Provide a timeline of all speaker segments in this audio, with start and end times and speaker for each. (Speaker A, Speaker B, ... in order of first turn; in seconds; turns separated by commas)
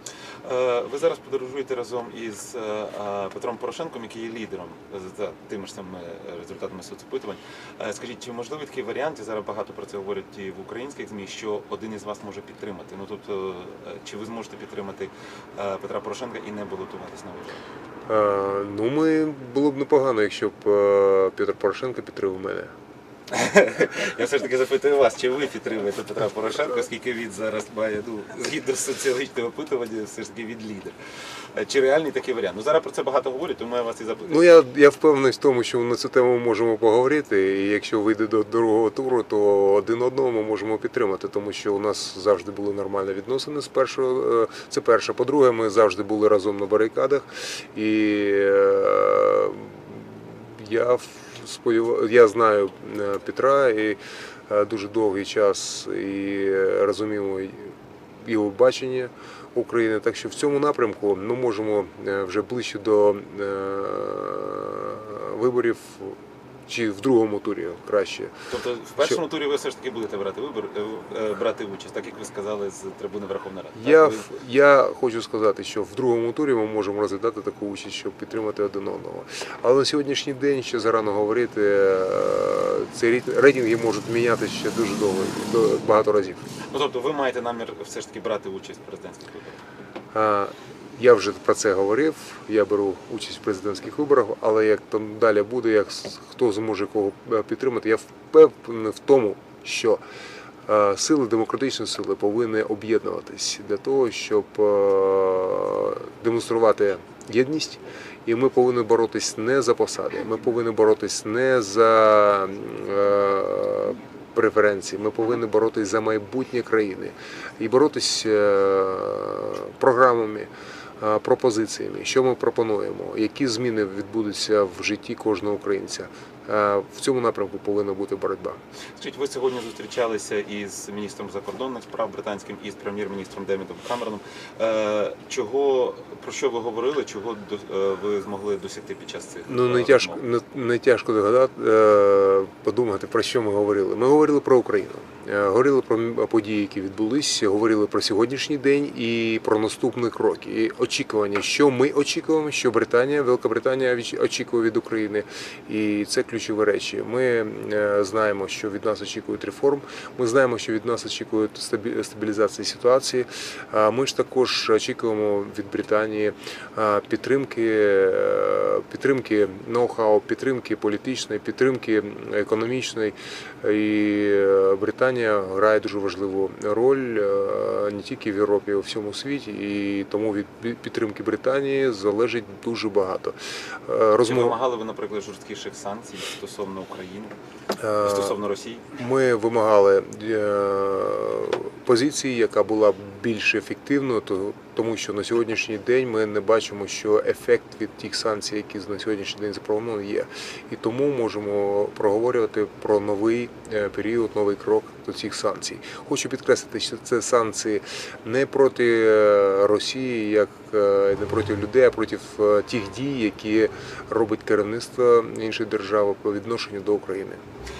Speaker A: 0.4-17.6, Speaker B: 18.1-22.7, Speaker A: 23.3-30.9, Speaker A: 31.5-34.4, Speaker B: 34.2-69.2, Speaker A: 68.5-74.2, Speaker B: 73.7-86.5, Speaker A: 86.7-89.6, Speaker B: 90.1-100.0, Speaker B: 100.7-128.6, Speaker A: 129.0-140.2, Speaker B: 139.5-184.6, Speaker A: 184.2-187.3, Speaker B: 187.8-188.4, Speaker A: 188.1-188.9, Speaker B: 188.9-217.4